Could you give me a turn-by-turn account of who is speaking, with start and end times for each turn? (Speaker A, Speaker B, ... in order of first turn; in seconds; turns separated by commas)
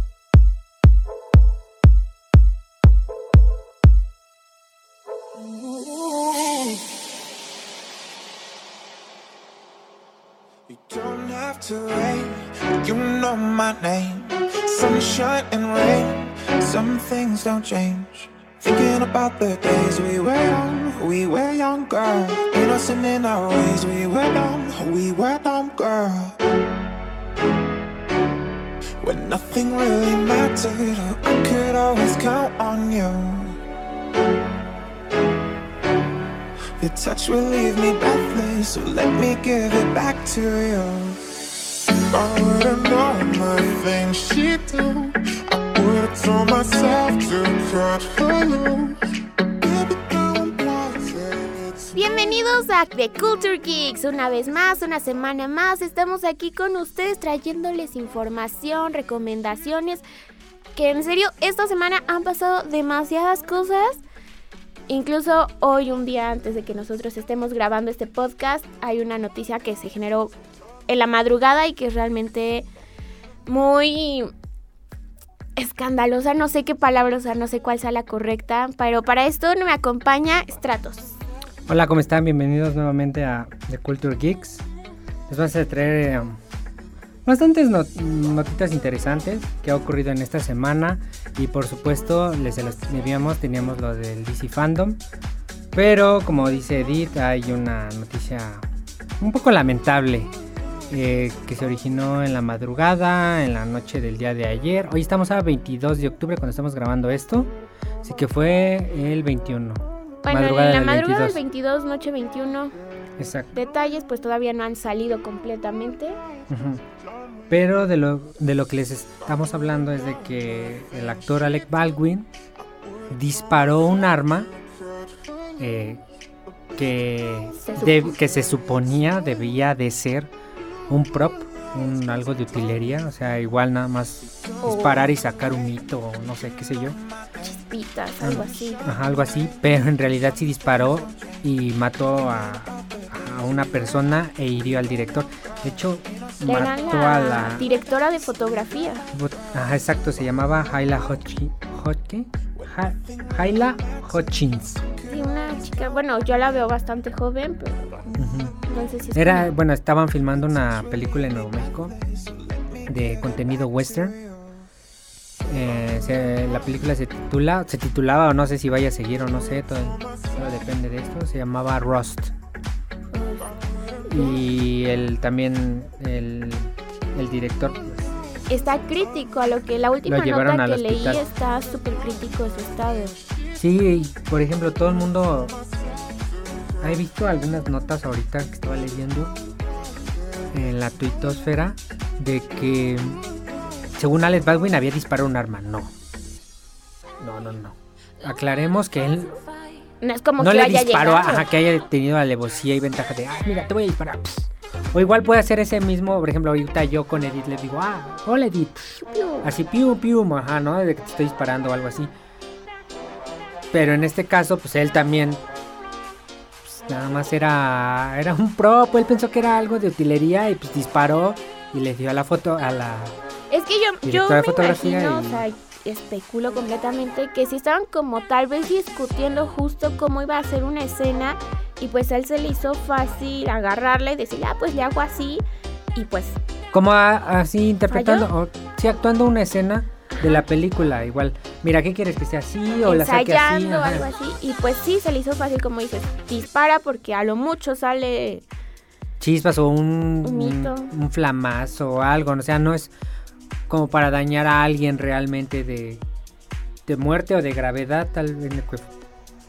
Speaker A: 10.7-26.4, Speaker A: 29.0-33.6, Speaker A: 36.8-41.3, Speaker A: 42.1-49.0, Speaker A: 49.6-52.1, Speaker B: 52.0-60.0, Speaker B: 60.8-64.0, Speaker B: 64.9-70.3, Speaker B: 70.9-72.7, Speaker B: 73.5-74.3, Speaker B: 75.6-81.2, Speaker C: 81.7-84.7, Speaker C: 85.3-86.4, Speaker C: 87.2-95.0, Speaker C: 95.7-98.7, Speaker C: 99.2-100.3, Speaker C: 100.9-107.5, Speaker C: 108.0-111.4, Speaker B: 110.2-112.8, Speaker C: 113.2-113.5, Speaker B: 113.5-116.2, Speaker C: 116.5-116.8, Speaker C: 117.5-122.3, Speaker C: 123.1-124.5, Speaker C: 125.6-126.0, Speaker C: 126.8-130.3, Speaker B: 127.6-128.2, Speaker C: 130.9-137.0, Speaker B: 134.6-135.1, Speaker B: 137.4-138.8, Speaker C: 138.2-147.7, Speaker B: 146.4-149.1, Speaker C: 149.1-154.8, Speaker B: 155.0-159.5, Speaker C: 158.2-158.5, Speaker C: 159.1-161.9, Speaker A: 162.0-162.8, Speaker C: 162.9-164.2, Speaker C: 165.4-172.3, Speaker B: 173.1-173.5, Speaker B: 174.0-174.4, Speaker C: 174.1-178.1, Speaker B: 178.5-183.2, Speaker C: 180.1-181.2, Speaker C: 183.6-185.6, Speaker C: 186.8-189.3, Speaker C: 190.5-193.2, Speaker C: 193.9-195.9, Speaker C: 197.2-199.4, Speaker B: 200.0-201.5, Speaker C: 200.4-212.1, Speaker B: 209.0-209.5, Speaker C: 213.7-215.4, Speaker C: 216.7-223.1, Speaker B: 223.5-235.4, Speaker C: 224.0-225.4, Speaker B: 235.9-236.4, Speaker C: 236.7-244.1, Speaker B: 237.9-238.3, Speaker B: 240.1-240.4, Speaker B: 242.8-248.4, Speaker C: 249.2-252.9, Speaker B: 250.2-250.9, Speaker C: 253.7-256.0, Speaker C: 256.9-258.9